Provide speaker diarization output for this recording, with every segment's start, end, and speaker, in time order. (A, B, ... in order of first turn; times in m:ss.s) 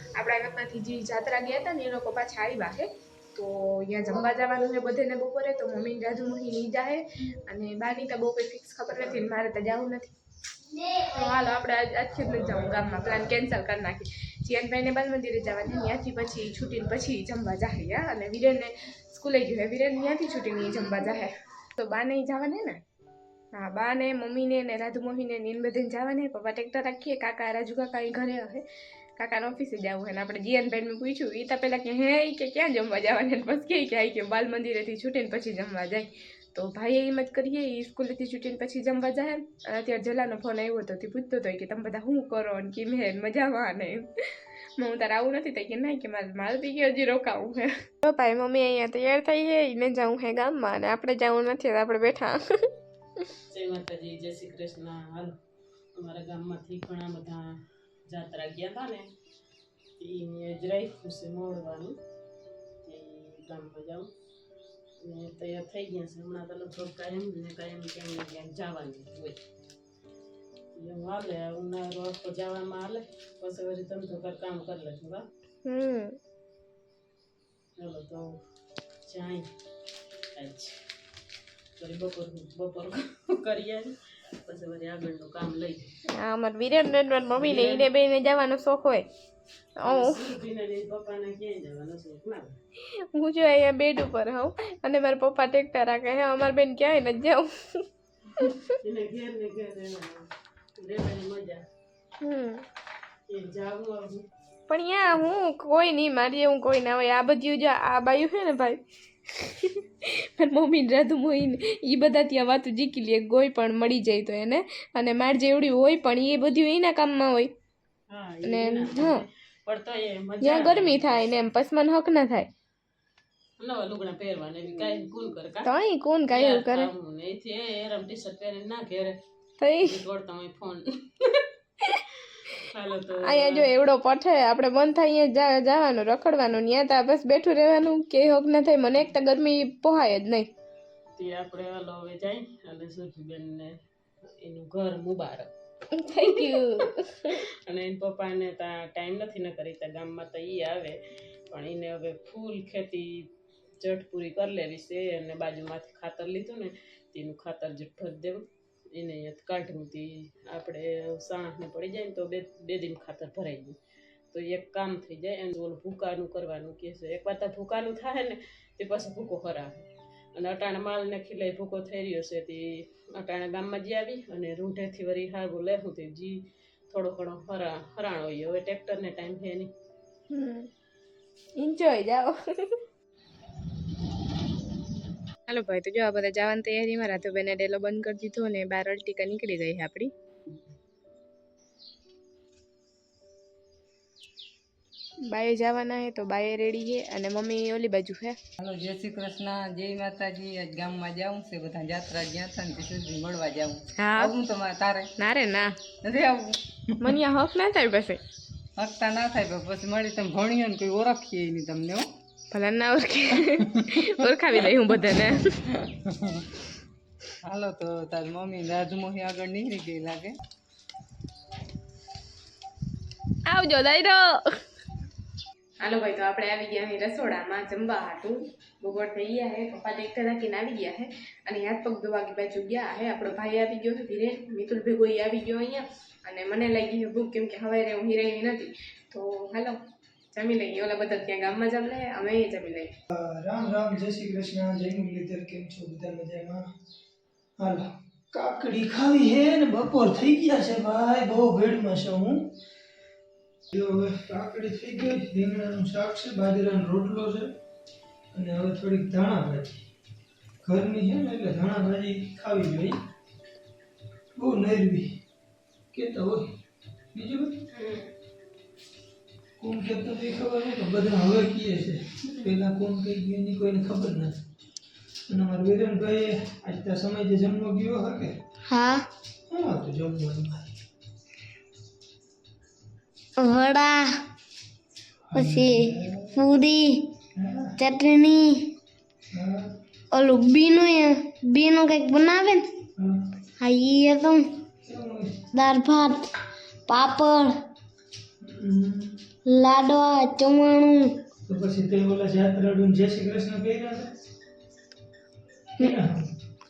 0:00.1-0:10.1 A
0:10.8-0:22.8 A
0:23.5-0:28.6 A
0:29.2-0:44.0 A
0:44.8-0:52.4 A
0:53.5-0:55.3 B
0:56.0-0:57.5 B
0:58.1-0:59.1 B
1:00.0-1:02.0 B
1:02.8-1:04.1 B
1:05.0-1:09.4 B
1:10.8-1:15.2 B
1:15.6-1:16.2 A
1:17.8-1:18.4 B
1:19.0-1:19.5 B
1:20.4-1:20.8 B
1:21.8-1:23.9 B
1:24.4-1:25.9 B
1:26.2-1:29.0 A
1:27.4-1:27.9 B
1:29.8-1:30.2 A
1:29.8-1:32.6 B
1:33.1-1:37.8 A
1:38.8-1:41.6 B
1:42.2-1:42.6 A
1:43.3-1:44.2 B
1:44.7-1:48.8 A
1:49.4-1:57.5 A
1:58.1-2:01.2 B
1:58.4-1:59.2 A
2:00.4-2:02.5 A
2:03.6-2:05.7 B
2:05.6-2:06.9 A
2:06.3-2:09.2 B
2:09.6-2:10.0 A
2:09.8-2:11.4 B
2:12.6-2:13.7 B
2:13.2-2:20.5 A
2:21.2-2:23.8 B
2:24.4-2:25.5 B
2:25.9-2:27.3 A
2:27.7-2:31.0 B
2:31.5-2:33.3 B
2:33.8-2:43.8 B
2:44.3-2:59.7 B
3:00.3-3:00.7 A
3:01.6-3:02.7 A
3:05.5-3:10.1 A
3:15.3-3:18.4 A
3:18.6-3:25.1 C
3:24.0-3:24.3 A
3:25.2-3:25.8 A
3:26.0-3:27.1 C
3:27.0-3:28.2 A
3:28.8-3:32.0 C
3:32.5-3:35.7 A
3:33.4-3:34.4 C
3:35.9-3:36.4 C
3:37.4-3:40.4 C
3:43.4-3:44.4 A
3:45.8-3:59.8 A
4:00.3-4:02.9 A
4:03.1-4:06.6 D
4:07.6-4:12.5 D
4:13.7-4:17.5 D
4:18.3-4:19.8 D
4:20.6-4:22.9 D
4:24.4-4:25.2 D
4:25.9-4:26.4 D
4:27.1-4:27.6 D
4:27.7-4:28.0 A
4:29.6-4:34.3 D
4:35.3-4:38.3 D
4:38.7-4:39.0 E
4:39.5-4:40.7 D
4:43.4-4:44.1 E
4:45.3-4:46.5 D
4:45.3-4:47.0 E
4:47.4-4:47.8 D
4:47.8-4:48.6 E
4:49.3-4:49.7 D
4:50.1-4:52.6 E
4:53.0-4:53.2 D
4:53.6-4:54.4 E
4:54.8-4:55.4 D
4:55.5-4:56.3 E
4:56.9-4:57.5 E
4:58.4-4:59.2 D
4:59.4-5:01.1 E
5:01.5-5:04.1 D
5:05.8-5:06.2 D